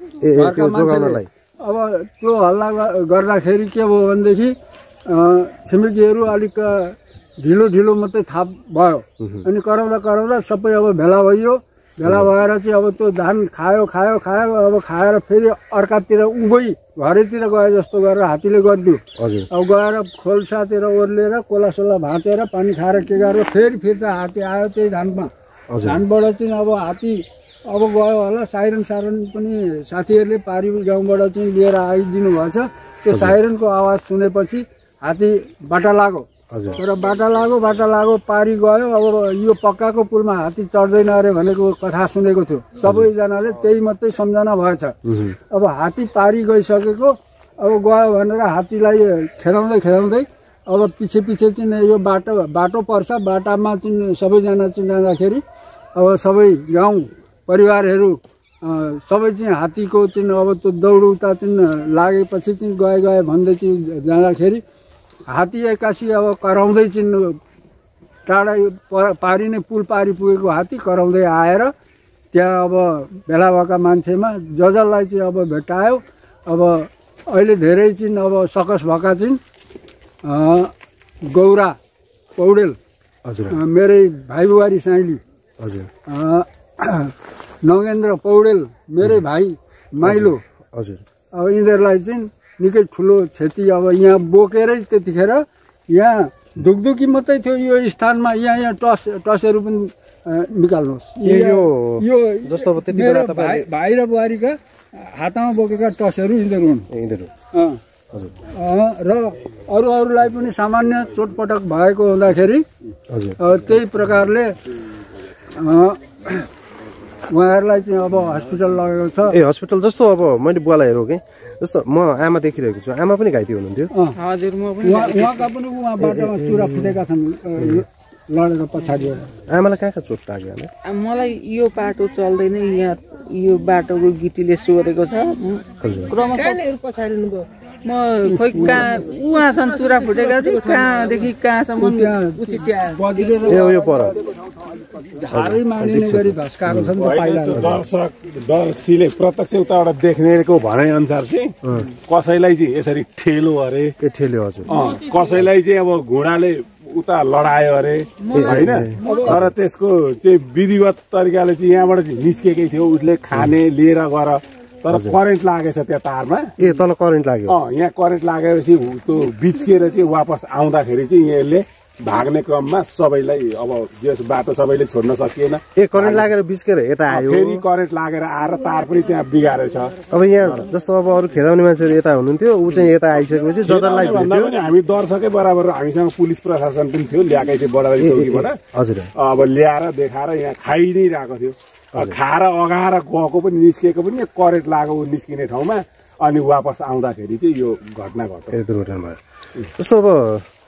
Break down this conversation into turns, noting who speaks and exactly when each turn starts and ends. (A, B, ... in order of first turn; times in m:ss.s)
0:00.2-0:01.3 A
0:00.4-0:25.3 B
0:09.2-0:09.4 A
0:19.2-0:19.5 A
0:25.7-0:26.0 A
0:25.8-0:44.9 B
0:33.1-0:33.4 A
0:36.5-0:36.8 A
0:42.8-0:43.1 A
0:45.0-0:45.4 A
0:45.5-0:55.4 B
0:55.9-1:04.6 B
1:05.3-1:07.4 B
1:08.2-1:11.7 B
1:12.3-1:19.4 B
1:20.2-1:20.7 B
1:21.2-1:21.8 B
1:22.4-1:22.8 B
1:23.2-1:23.6 A
1:23.5-1:25.2 B
1:25.6-1:25.9 A
1:26.1-1:30.4 B
1:30.0-1:31.0 A
1:31.3-1:46.9 B
1:41.2-1:43.7 A
1:46.9-1:47.3 A
1:47.5-1:47.8 B
1:48.5-1:52.6 B
1:53.1-1:53.4 A
1:53.4-1:54.5 B
1:55.5-1:56.5 B
1:57.3-1:59.4 B
1:59.3-2:03.9 A
2:03.9-2:04.2 B
2:04.2-2:05.5 C
2:04.8-2:09.3 B
2:06.0-2:07.0 A
2:09.5-2:10.7 A
2:10.8-2:16.8 C
2:15.8-2:16.1 A
2:17.8-2:23.3 C
2:18.2-2:19.1 B
2:21.8-2:27.7 B
2:23.4-2:24.1 A
2:25.3-2:26.9 A
2:27.0-2:33.9 D
2:27.5-2:27.8 A
2:31.6-2:31.9 A
2:34.0-2:34.7 A
2:34.7-2:46.5 D
2:38.3-2:39.5 A
2:39.0-2:39.4 B
2:44.9-2:45.2 A
2:46.6-2:47.6 A
2:47.5-2:56.3 D
2:55.8-2:57.6 A
2:57.1-3:00.0 D
3:00.1-3:04.5 A
3:03.7-3:08.6 D
3:08.0-3:09.1 A
3:09.2-3:18.6 D
3:18.5-3:19.2 A
3:19.8-3:20.4 A